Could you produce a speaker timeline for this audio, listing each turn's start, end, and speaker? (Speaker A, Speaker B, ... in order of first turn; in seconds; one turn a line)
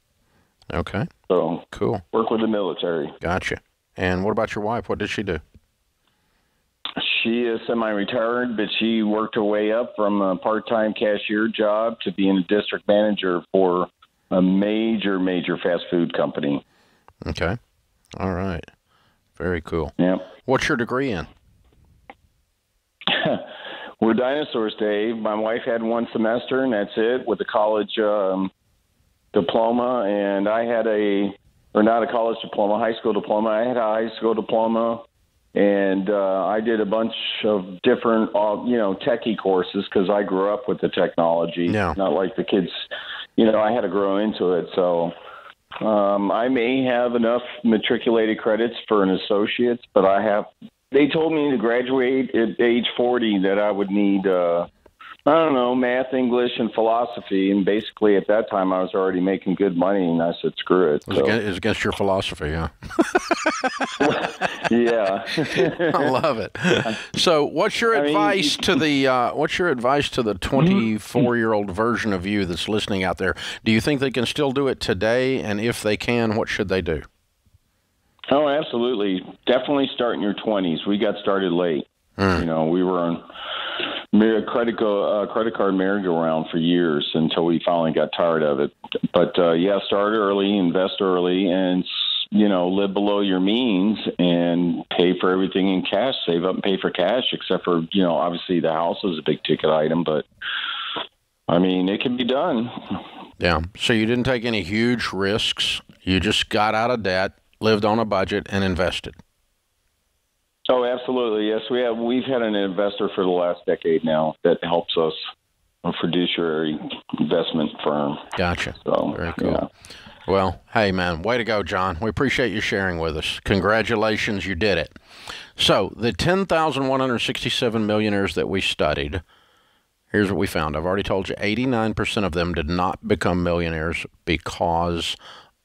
Speaker A: 0.7-1.1
Speaker B: 1.3-3.1
Speaker A: 1.7-2.0
Speaker A: 3.2-5.4
Speaker B: 7.0-16.6
Speaker A: 17.2-17.6
Speaker A: 18.1-18.7
Speaker A: 19.4-19.9
Speaker B: 20.0-20.3
Speaker A: 20.4-21.3
Speaker B: 23.1-23.4
Speaker B: 24.0-28.5
Speaker B: 29.3-35.0
Speaker B: 35.5-42.9
Speaker A: 41.7-42.0
Speaker B: 43.4-45.1
Speaker B: 45.8-54.7
Speaker B: 55.2-61.3
Speaker A: 61.1-64.5
Speaker B: 64.0-66.1
Speaker A: 65.3-77.0
Speaker B: 67.9-68.8
Speaker B: 78.3-83.2
Speaker A: 82.2-82.4
Speaker B: 84.1-100.2
Speaker B: 101.5-103.0
Speaker A: 103.4-109.2
Speaker B: 110.7-115.2
Speaker B: 115.8-119.7
Speaker A: 118.4-119.6
Speaker A: 120.2-125.0
Speaker A: 125.6-129.2
Speaker A: 130.1-135.2